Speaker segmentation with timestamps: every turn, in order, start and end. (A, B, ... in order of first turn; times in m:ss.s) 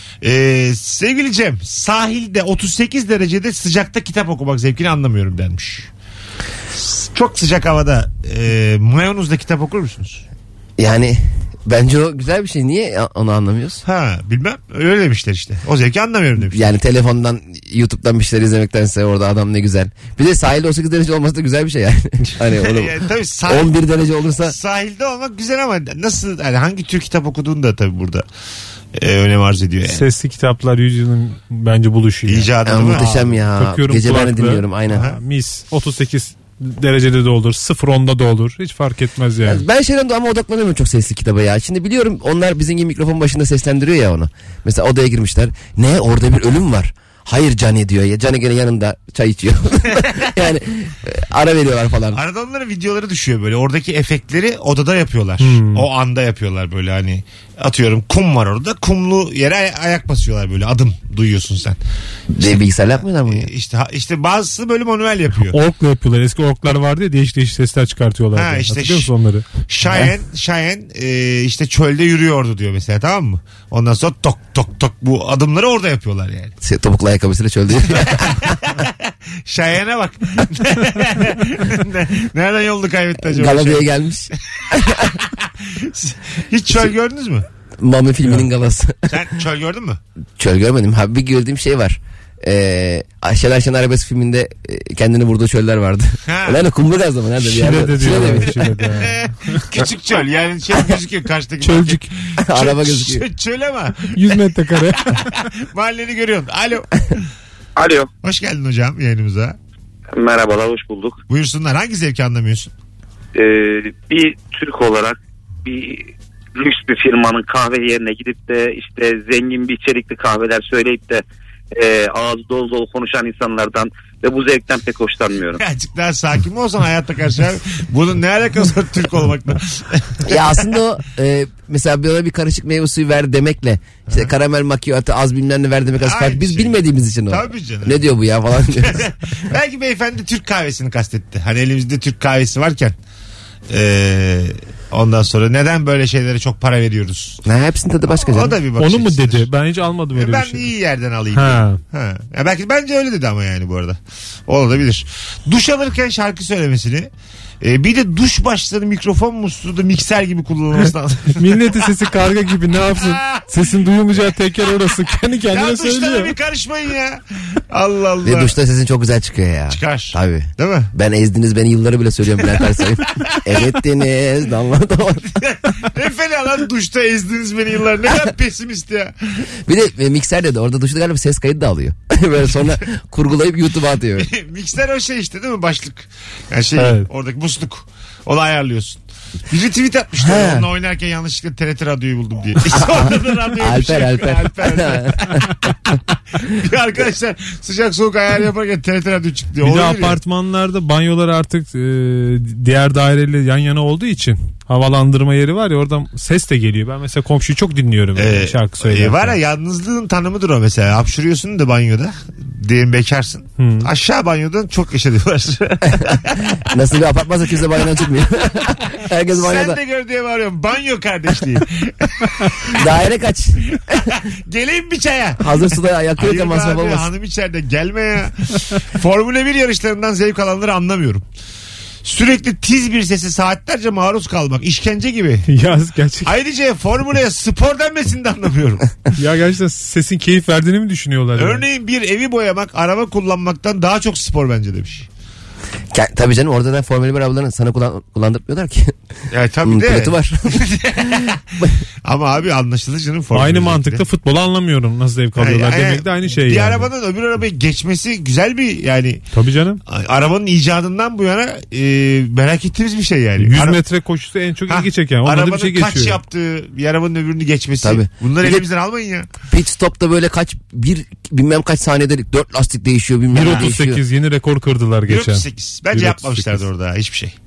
0:00.2-0:05.9 A
0:06.7-0:10.2 A
0:10.8-0:13.8 B
0:13.8-0:16.7 A
0:16.5-0:24.5 B
0:22.6-0:23.8 A
0:24.4-0:28.2 A
0:28.9-0:30.0 A
0:29.9-0:39.6 C
0:32.3-0:33.2 A
0:32.6-0:35.0 B
0:34.9-0:35.2 A
0:39.4-0:52.2 B
0:52.1-1:01.8 A
0:55.4-0:55.9 C
1:02.3-1:03.5 B
1:03.2-1:05.6 A
1:05.4-1:09.5 C
1:08.3-1:09.1 A
1:09.7-1:16.5 A
1:09.8-1:10.2 B
1:16.6-1:18.6 B
1:17.8-1:23.9 A
1:23.2-1:25.2 B
1:24.7-1:27.4 A
1:27.8-1:29.1 B
1:29.1-1:30.0 A
1:30.4-1:38.5 B
1:36.3-1:36.6 A
1:37.4-1:39.6 C
1:39.0-1:47.3 A
1:41.6-1:42.1 C
1:42.4-1:43.2 B
1:44.0-1:45.2 C
1:47.8-1:48.1 D
1:48.2-1:49.6 A
1:50.1-1:51.2 D
1:51.3-1:52.7 A
1:53.3-2:05.6 D
2:05.6-2:10.4 A
2:10.2-2:19.1 B
2:16.0-2:18.1 A
2:18.6-2:23.0 A
2:23.7-2:27.4 A
2:27.4-2:28.6 B
2:28.2-2:29.5 A
2:28.8-2:30.7 C
2:30.1-2:37.1 A
2:31.3-2:31.8 C
2:37.6-2:41.6 A
2:41.3-2:46.3 C
2:42.9-2:43.5 A
2:45.5-2:48.6 A
2:48.2-2:55.2 B
2:49.7-2:50.9 A
2:53.2-2:53.6 A
2:55.2-2:59.5 A
2:59.6-3:04.3 B
3:04.2-3:20.2 A
3:06.8-3:07.1 C
3:10.2-3:10.7 B
3:12.7-3:15.4 B
3:19.6-3:29.4 C
3:28.2-3:36.4 A
3:33.6-3:33.9 C
3:35.8-3:39.8 B
3:39.3-3:42.8 A
3:42.7-3:44.1 B
3:43.7-3:51.2 A
3:45.4-3:47.1 B
3:52.0-3:55.5 A
3:55.5-3:56.3 C
3:56.2-3:58.9 A
3:59.2-4:01.6 C
4:01.4-4:05.1 A
4:05.9-4:08.9 B
4:09.3-4:14.0 A
4:09.6-4:11.7 B
4:13.3-4:16.9 C
4:15.4-4:19.2 A
4:19.3-4:19.8 C
4:19.8-4:23.8 A
4:23.4-4:26.2 C
4:24.7-4:29.3 A
4:27.8-4:28.6 B
4:29.5-4:34.0 B
4:33.3-4:36.6 C
4:35.1-4:37.4 A